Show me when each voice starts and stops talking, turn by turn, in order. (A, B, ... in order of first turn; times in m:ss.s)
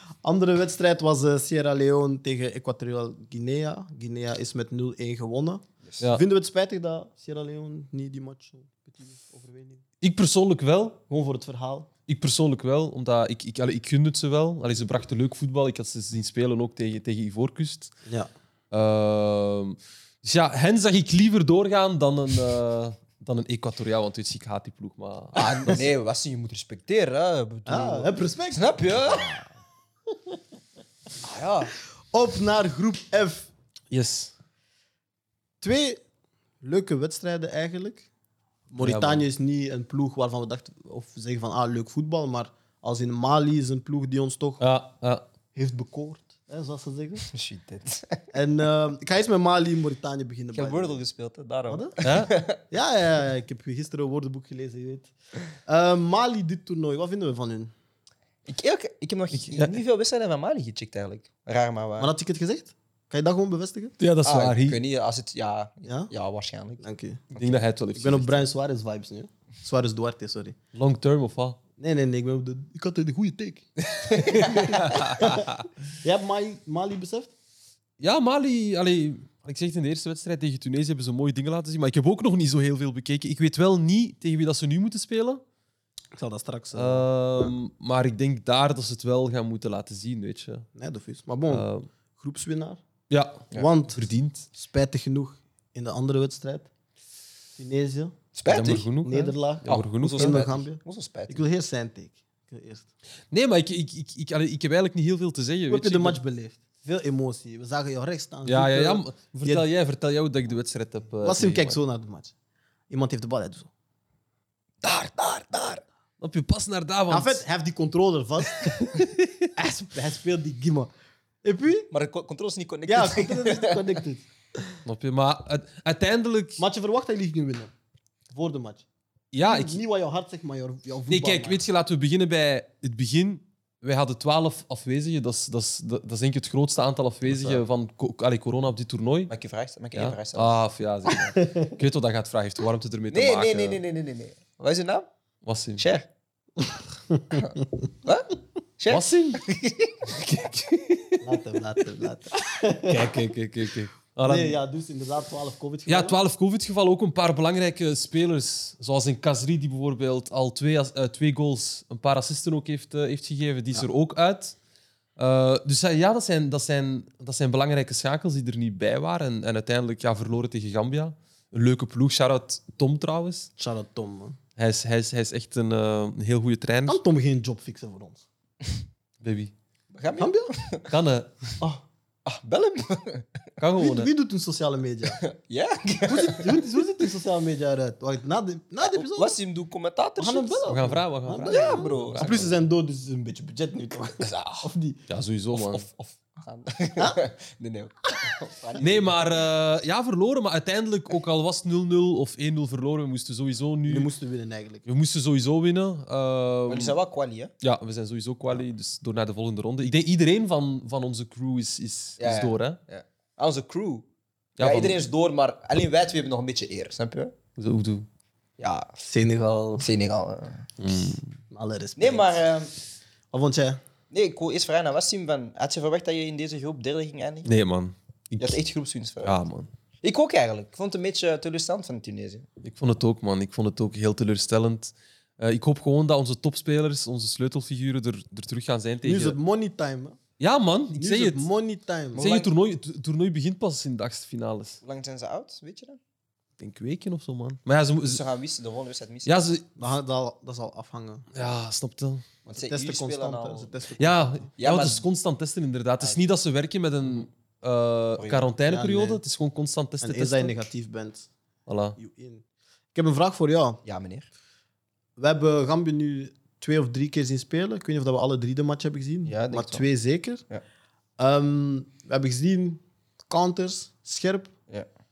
0:00.2-0:09.8 A
0:10.0-0:11.0 B
0:11.1-0:11.9 A
0:12.1-0:18.0 B
0:18.7-0:25.8 B
0:25.4-0:29.4 C
0:27.7-0:29.4 A
0:31.2-0:31.7 C
0:32.1-0:33.5 A
0:33.9-0:34.3 B
0:35.6-0:36.0 A
0:36.6-0:38.1 A
0:38.7-0:44.6 A
0:38.8-0:39.3 B
0:44.6-0:45.2 B
0:45.5-0:47.2 A
0:47.3-0:48.2 C
0:48.3-0:51.0 A
0:50.5-0:52.6 C
0:52.0-0:52.3 B
0:52.7-0:57.7 A
0:58.5-1:02.1 C
0:59.3-0:59.8 B
1:02.0-1:03.9 A
1:04.0-1:04.8 B
1:04.2-1:06.8 C
1:05.9-1:06.1 A
1:06.8-1:07.2 A
1:07.3-1:08.5 B
1:08.0-1:10.6 A
1:10.7-1:11.6 B
1:11.8-1:17.3 A
1:14.1-1:15.1 C
1:14.5-1:15.6 B
1:18.0-1:25.4 B
1:26.1-1:27.1 A
1:26.7-1:30.7 B
1:30.8-1:31.7 A
1:31.5-1:31.9 B
1:32.2-1:32.8 A
1:33.1-1:34.5 B
1:33.5-1:36.7 A
1:37.6-1:38.2 A
1:38.4-1:38.9 C
1:38.5-1:40.4 B
1:39.0-1:42.9 A
1:39.6-1:41.4 C
1:43.3-1:46.2 B
1:45.7-1:49.6 A
1:48.5-1:51.8 B
1:51.2-1:52.3 A
1:52.9-1:53.7 A
1:54.8-1:55.8 C
1:56.2-1:57.4 B
1:57.1-2:00.9 A
1:58.8-1:59.5 B
2:01.4-2:01.9 A
2:01.9-2:04.0 C
2:02.9-2:04.3 A
2:04.8-2:06.6 B
2:06.6-2:07.7 A
2:08.3-2:08.8 A
2:09.3-2:09.8 B
2:09.4-2:11.6 A
2:11.1-2:19.3 B
2:17.3-2:17.6 A
2:19.3-2:20.6 C
2:20.0-2:23.8 B
2:21.4-2:21.7 A
2:23.1-2:25.1 C
2:25.4-2:25.8 B
2:25.8-2:26.1 C
2:27.1-2:27.4 A
2:28.1-2:30.1 C
2:28.9-2:29.4 B
2:30.1-2:31.2 B
2:31.2-2:33.2 A
2:32.9-2:34.6 B
2:34.2-2:36.2 A
2:35.9-2:44.6 B
2:45.2-2:53.5 B
2:53.6-2:54.4 A
2:54.6-2:57.0 B
2:56.9-2:58.2 A
2:59.2-2:59.5 B
2:59.9-3:00.9 C
3:00.2-3:00.5 A
3:00.9-3:01.5 B
3:02.3-3:03.4 C
3:03.6-3:04.1 B
3:03.8-3:05.2 A
3:05.2-3:06.6 C
3:06.1-3:09.4 A
3:08.8-3:10.7 C
3:10.2-3:15.0 A
3:10.7-3:12.6 B
3:11.4-3:12.5 C
3:14.2-3:14.7 C
3:15.1-3:15.9 B
3:15.5-3:19.3 C
3:18.8-3:24.1 B
3:23.9-3:24.8 A
3:24.9-3:27.0 B
3:26.7-3:27.5 C
3:27.6-3:32.8 B
3:32.2-3:34.0 C
3:34.6-3:35.0 B
3:34.6-3:37.3 C
3:37.6-3:38.1 B
3:38.6-3:39.0 C
3:39.0-3:39.8 A
3:39.8-3:40.7 C
3:40.8-3:41.4 B
3:41.5-3:42.3 A
3:42.0-3:42.7 C
3:43.3-3:43.8 A
3:44.1-3:47.5 C
3:47.4-3:48.6 B
3:48.4-3:49.4 C
3:49.2-3:49.7 B
3:50.0-3:52.5 C
3:52.6-3:59.4 B
3:59.0-4:00.2 A
4:00.4-4:01.5 B
4:01.0-4:02.2 A
4:02.1-4:02.5 C
4:02.2-4:04.8 B
4:04.8-4:06.0 C
4:06.6-4:08.2 B
4:08.0-4:09.3 C
4:09.2-4:09.7 B
4:09.8-4:11.3 A
4:11.3-4:12.2 B
4:12.5-4:13.7 C
4:12.5-4:14.5 A
4:14.0-4:20.6 B
4:14.6-4:15.0 C
4:18.2-4:18.5 C
4:18.7-4:19.2 A
4:20.0-4:21.3 A
4:21.7-4:22.0 B
4:22.0-4:22.4 A
4:22.9-4:23.8 A
4:23.8-4:24.3 C
4:25.2-4:30.4 A
4:29.3-4:29.9 C
4:31.2-4:34.5 A